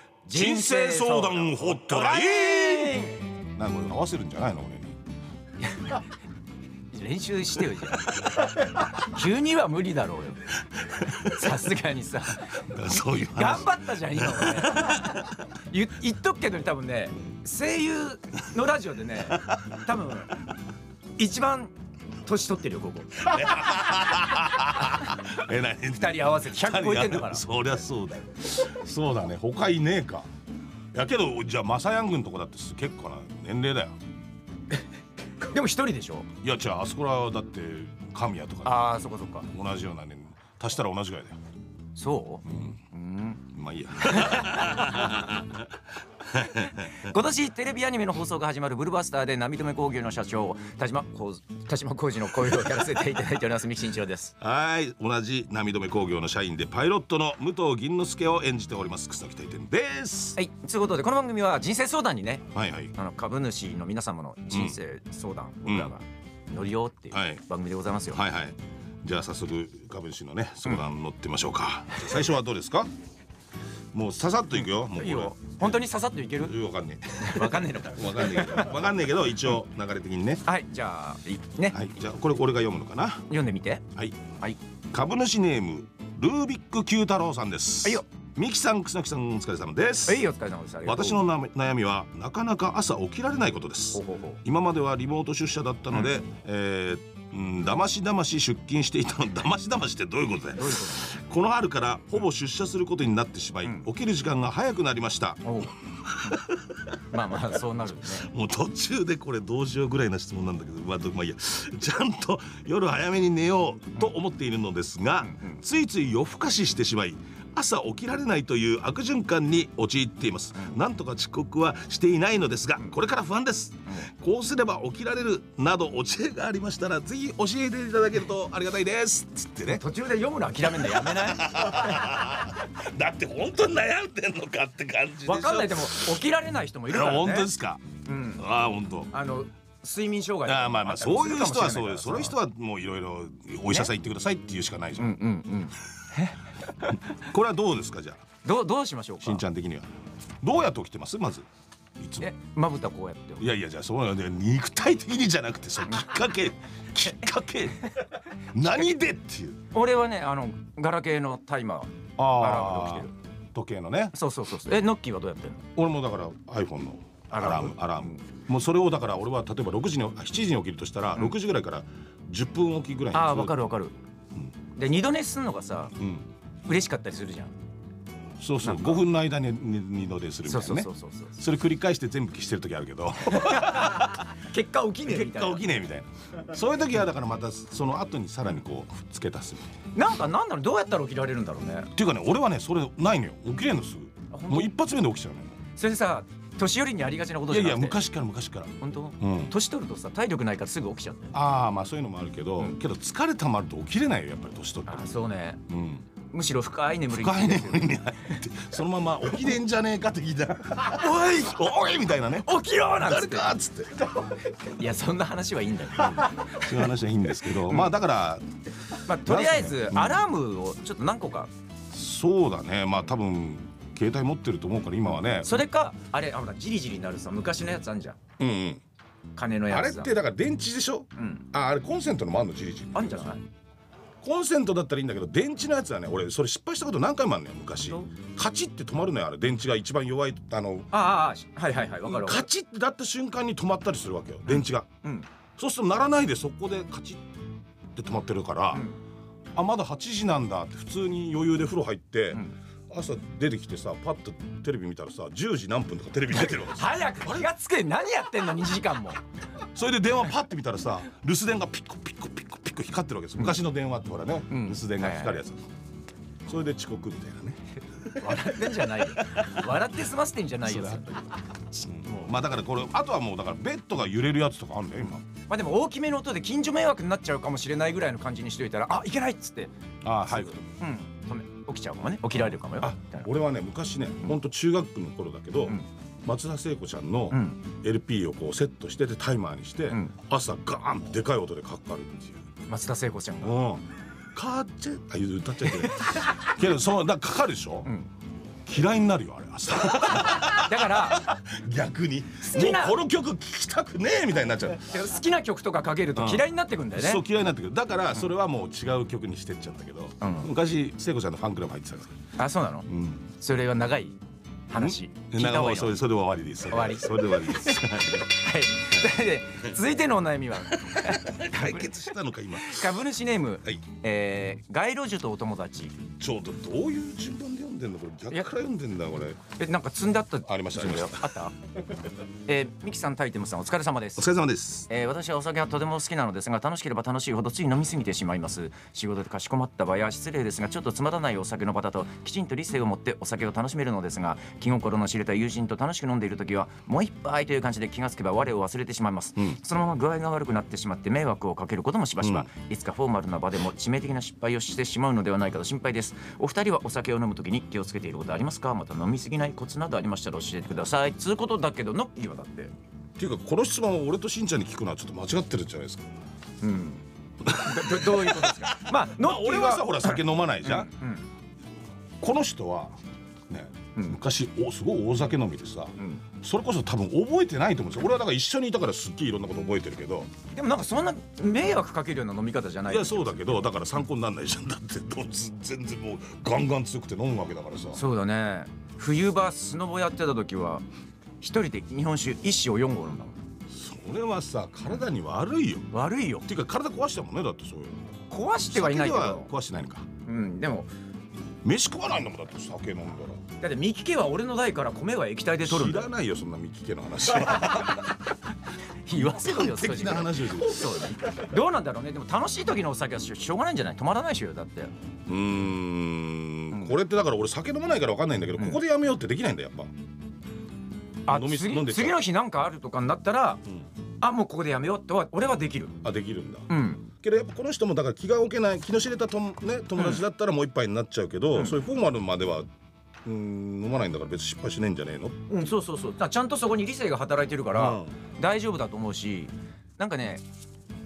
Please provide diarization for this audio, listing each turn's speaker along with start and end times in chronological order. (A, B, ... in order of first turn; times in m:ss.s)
0:00.3-0:03.2 A
0:00.3-0:03.0 B
0:03.6-0:05.0 B
0:05.6-0:06.1 A
0:06.9-0:12.6 A
0:07.9-0:08.5 B
0:10.8-0:11.5 B
0:12.4-0:15.4 B
0:13.1-0:20.3 A
0:19.4-0:19.8 B
0:21.2-0:23.8 A
0:23.2-0:30.3 B
0:25.9-0:27.4 A
0:30.9-0:34.0 B
0:35.4-0:36.3 A
0:36.4-0:38.9 B
0:38.6-0:39.5 A
0:39.5-0:41.4 B
0:42.0-0:43.4 A
0:42.5-0:42.8 B
0:43.5-0:47.1 B
0:44.0-0:45.1 A
0:46.8-0:54.4 A
0:54.4-1:00.4 B
1:00.4-1:08.2 A
1:02.5-1:02.9 B
1:04.5-1:04.8 B
1:05.6-1:05.9 B
1:07.1-1:07.4 B
1:08.1-1:12.9 B
1:13.9-1:15.8 B
1:14.8-1:16.6 A
1:16.4-1:20.4 B
1:17.2-1:18.8 A
1:20.4-1:21.8 A
1:21.7-1:23.3 B
1:23.3-1:23.8 A
1:24.0-1:24.3 B
1:24.9-1:30.3 B
1:30.1-1:31.2 A
1:30.8-2:09.9 B
1:33.9-1:34.4 A
1:40.6-1:41.2 A
1:45.4-1:45.7 A
1:47.1-1:48.3 A
1:55.2-1:55.6 A
2:09.7-2:11.7 A
2:10.6-2:16.2 B
2:15.2-2:17.5 A
2:16.9-2:19.1 B
2:18.1-2:18.4 A
2:19.1-2:22.4 A
2:20.4-2:25.2 B
2:25.0-2:27.1 A
2:27.0-2:28.2 B
2:28.4-2:29.4 A
2:29.2-2:29.9 B
2:30.4-2:31.5 B
2:32.0-2:32.3 B
2:32.2-2:33.4 A
2:33.4-2:39.6 B
2:38.6-2:39.0 A
2:39.7-2:43.1 A
2:42.2-2:44.2 B
2:44.2-2:45.6 A
2:45.8-2:53.6 B
2:47.3-2:48.2 A
2:53.1-2:54.0 A
2:54.8-2:55.9 A
2:56.0-2:56.3 B
2:56.7-2:57.5 A
2:58.4-3:04.3 B
2:58.6-2:59.0 A
3:00.5-3:01.4 A
3:03.3-3:05.6 A
3:05.0-3:09.7 B
3:10.0-3:11.9 A
3:11.9-3:15.5 B
3:14.3-3:14.7 A
3:15.8-3:18.0 A
3:17.5-3:19.5 B
3:18.8-3:21.4 A
3:21.3-3:25.1 B
3:24.9-3:25.6 A
3:25.7-3:26.1 B
3:26.3-3:28.4 A
3:27.1-3:34.0 B
3:30.9-3:31.6 A
3:32.4-3:33.5 A
3:34.2-3:36.9 A
3:36.0-3:38.5 B
3:37.4-3:37.9 A
3:39.0-3:41.5 A
3:39.1-3:40.2 B
3:41.9-3:45.6 B
3:45.4-3:48.2 A
3:48.4-3:48.8 B
3:49.4-3:50.1 A
3:49.7-3:53.3 B
3:51.2-3:51.4 A
3:53.0-3:53.4 A
3:54.2-4:00.9 B
3:57.8-3:58.1 A
4:00.9-4:02.5 A
4:02.0-4:04.9 B
4:04.5-4:05.3 A
4:05.6-4:07.3 B
4:07.9-4:08.9 B
4:09.6-4:17.5 B
4:16.4-4:19.2 A
4:19.7-4:25.6 B
4:24.5-4:25.4 A
4:26.5-4:29.8 B
4:28.1-4:32.1 A
4:30.6-4:31.3 B
4:31.8-4:35.3 B
4:35.5-4:39.7 A
4:40.0-4:40.6 B
4:40.3-4:43.3 A
4:42.7-4:52.4 B
4:47.3-4:47.6 A
4:52.7-4:53.6 A
4:53.4-4:57.9 B
4:55.7-4:56.4 A
4:58.6-5:05.0 B
5:00.3-5:01.3 A
5:02.4-5:03.0 A
5:04.9-5:07.2 A
5:06.2-5:12.2 B
5:10.2-5:10.5 A
5:12.4-5:15.9 A
5:12.9-5:13.2 B
5:14.8-5:18.3 B
5:16.7-5:22.0 A
5:20.7-5:23.0 B
5:22.6-5:26.0 A
5:26.2-5:29.4 B
5:29.6-5:31.5 A
5:30.5-5:31.4 B
5:32.5-5:34.3 A
5:34.2-5:34.9 B
5:34.9-6:02.7 A
5:52.2-5:52.5 B
6:03.2-6:06.1 B
6:06.6-6:11.3 A
6:07.4-6:10.9 B
6:12.2-6:13.0 B
6:13.5-6:20.3 B
6:16.0-6:16.2 A
6:20.5-6:23.2 A
6:22.9-6:28.0 B
6:27.9-6:30.8 A
6:31.4-6:33.4 A
6:33.7-6:35.9 B
6:35.9-6:36.4 A
6:36.4-6:38.1 B
6:38.3-6:39.5 A
6:38.7-6:40.1 B
6:40.2-6:40.9 A
6:41.6-6:43.4 B
6:43.6-6:46.1 A
6:45.6-6:48.2 B
6:49.0-6:54.9 A
6:49.1-6:51.1 B
6:55.3-6:59.9 B
7:01.3-7:02.2 B
7:01.3-7:03.6 A
7:04.2-7:06.0 A
7:06.0-7:12.7 B
7:06.7-7:07.0 A
7:10.0-7:10.2 A
7:13.2-7:15.4 B
7:15.5-7:20.4 A
7:17.7-7:18.1 B